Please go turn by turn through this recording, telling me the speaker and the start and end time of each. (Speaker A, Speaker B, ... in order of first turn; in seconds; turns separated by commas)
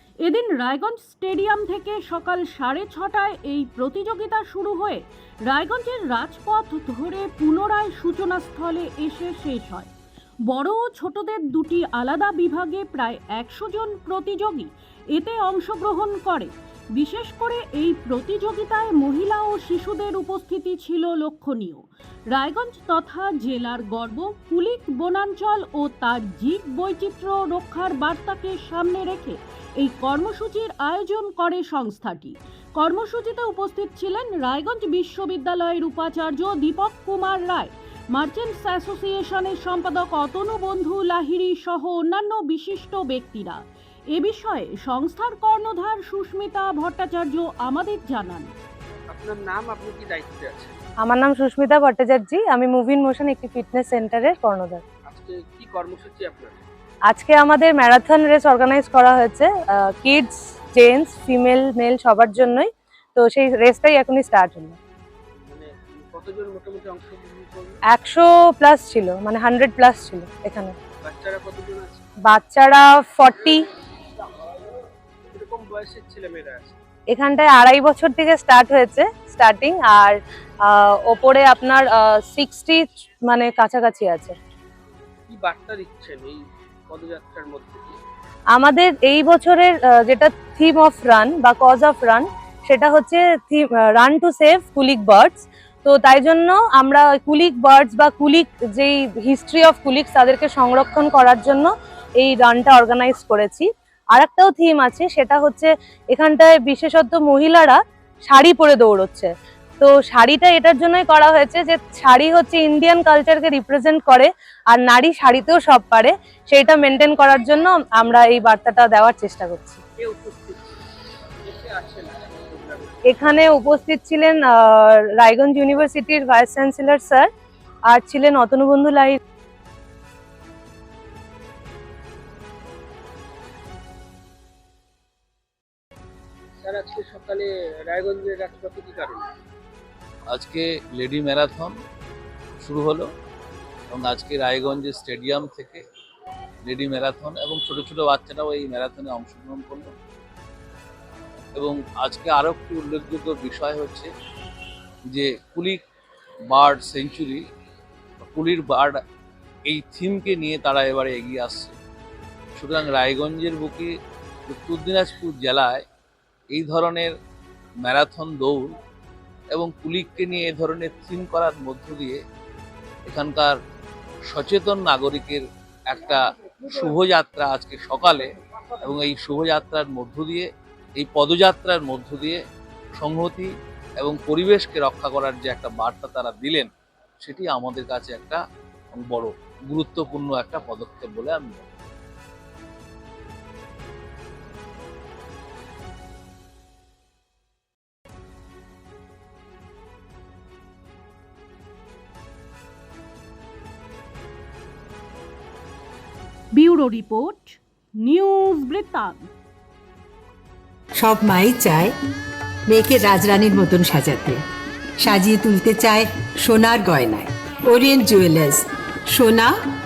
Speaker A: 0.2-9.9, Speaker A: 10.5-43.6, Speaker A: 44.1-48.5, Speaker B: 49.1-50.8, Speaker C: 51.0-54.8, Speaker B: 55.1-56.6, Speaker C: 57.1-64.8, Speaker B: 65.5-67.8, Speaker C: 67.9-70.7, Speaker B: 71.0-72.1, Speaker C: 72.3-73.6, Speaker B: 75.3-76.8, Speaker C: 77.1-84.3, Speaker B: 85.3-88.0, Speaker C: 88.5-109.3, Speaker C: 109.8-119.8, Speaker B: 120.0-120.8, Speaker B: 121.5-123.0, Speaker C: 123.1-127.3, Speaker C: 127.9-129.2, Speaker B: 136.6-139.3, Speaker D: 140.3-141.8, Speaker D: 142.6-143.1, Speaker D: 143.9-145.8, Speaker D: 146.7-149.9, Speaker D: 151.6-154.1, Speaker D: 155.1-155.8, Speaker D: 156.5-157.4, Speaker D: 158.3-159.0, Speaker D: 159.7-161.7, Speaker D: 162.6-163.9, Speaker D: 164.5-165.8, Speaker D: 166.5-167.1, Speaker D: 167.8-168.7, Speaker D: 169.5-172.2, Speaker D: 173.1-173.6, Speaker D: 174.3-178.3, Speaker D: 178.8-182.4, Speaker D: 183.0-183.5, Speaker D: 184.0-186.7, Speaker D: 187.2-188.4, Speaker D: 188.9-191.7, Speaker A: 206.5-209.2, Speaker E: 211.0-211.9, Speaker E: 212.7-214.4, Speaker E: 215.0-218.6, Speaker E: 219.1-219.5